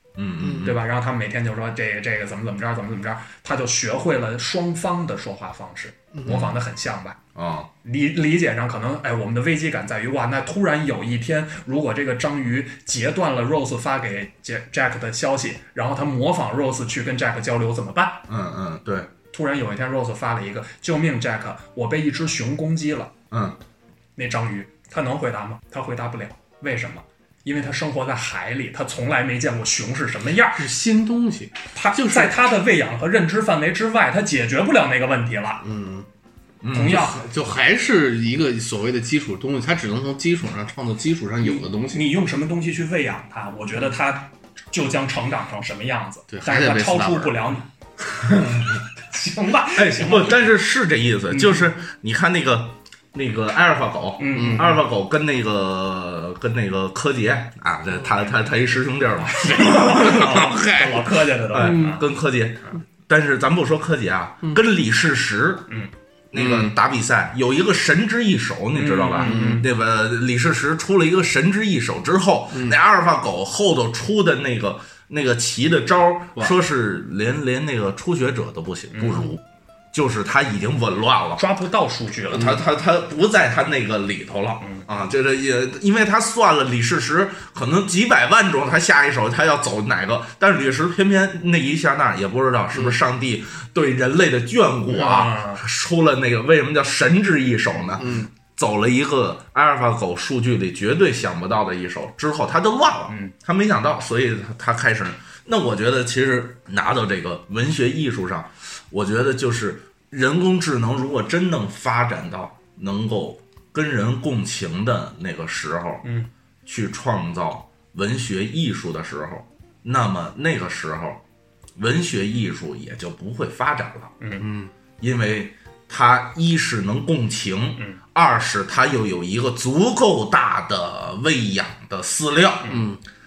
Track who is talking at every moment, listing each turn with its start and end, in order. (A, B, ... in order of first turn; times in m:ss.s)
0:00.2-0:00.8 A
0:00.4-0:00.7 B
0:00.6-0:07.2 C
0:06.2-0:06.5 A
0:07.3-0:07.7 A
0:07.8-0:18.2 C
0:18.3-0:19.1 A
0:19.3-0:23.1 C
0:23.3-0:23.6 A
0:24.2-0:30.7 C
0:30.5-0:32.4 B
0:31.7-0:35.6 C
0:35.6-0:36.1 B
0:36.6-0:37.1 A
0:36.7-0:37.2 C
0:36.8-0:42.0 B
0:41.4-0:47.7 C
0:46.3-0:47.4 B
0:48.3-0:50.4 C
0:49.7-1:05.7 A
0:51.3-0:51.7 C
0:54.2-0:54.8 C
0:54.3-0:54.7 B
0:59.2-1:02.0 C
1:01.6-1:02.0 B
1:06.3-1:19.4 A
1:06.3-1:06.7 B
1:08.7-1:09.7 C
1:09.2-1:09.6 B
1:18.9-1:19.3 C
1:19.9-1:21.4 A
1:21.4-1:22.6 C
1:22.3-1:56.0 A
1:34.9-1:35.6 C
1:38.0-1:38.3 B
1:43.1-1:43.3 C
1:56.0-1:56.3 C
1:56.6-2:01.2 A
2:01.8-2:04.1 A
2:04.2-2:04.4 C
2:04.4-2:04.7 B
2:05.0-2:12.8 A
2:12.7-2:13.0 B